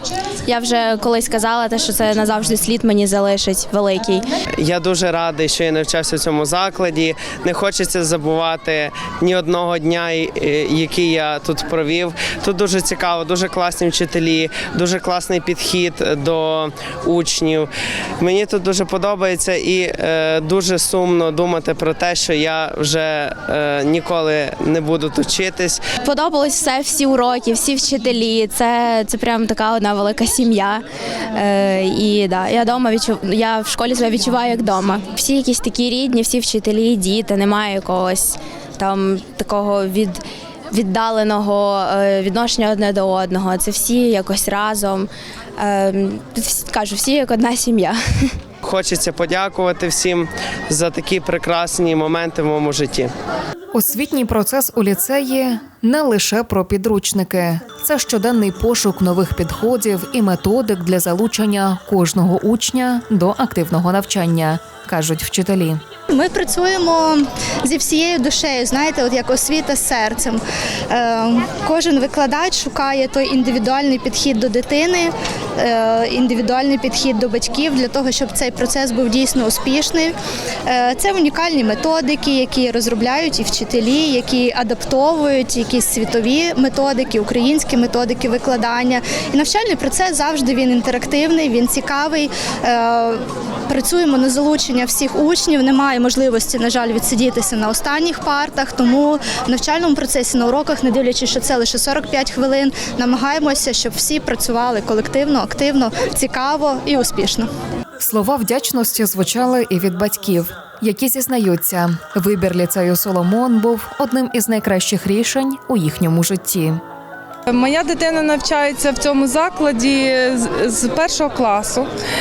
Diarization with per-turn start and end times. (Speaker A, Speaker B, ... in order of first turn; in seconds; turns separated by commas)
Speaker A: 0.5-4.2, Speaker B: 4.6-17.7, Speaker B: 18.2-25.8, Speaker A: 26.0-48.3, Speaker B: 48.6-53.1, Speaker C: 53.7-65.8, Speaker D: 66.1-107.5, Speaker C: 108.0-116.8, Speaker E: 117.5-121.9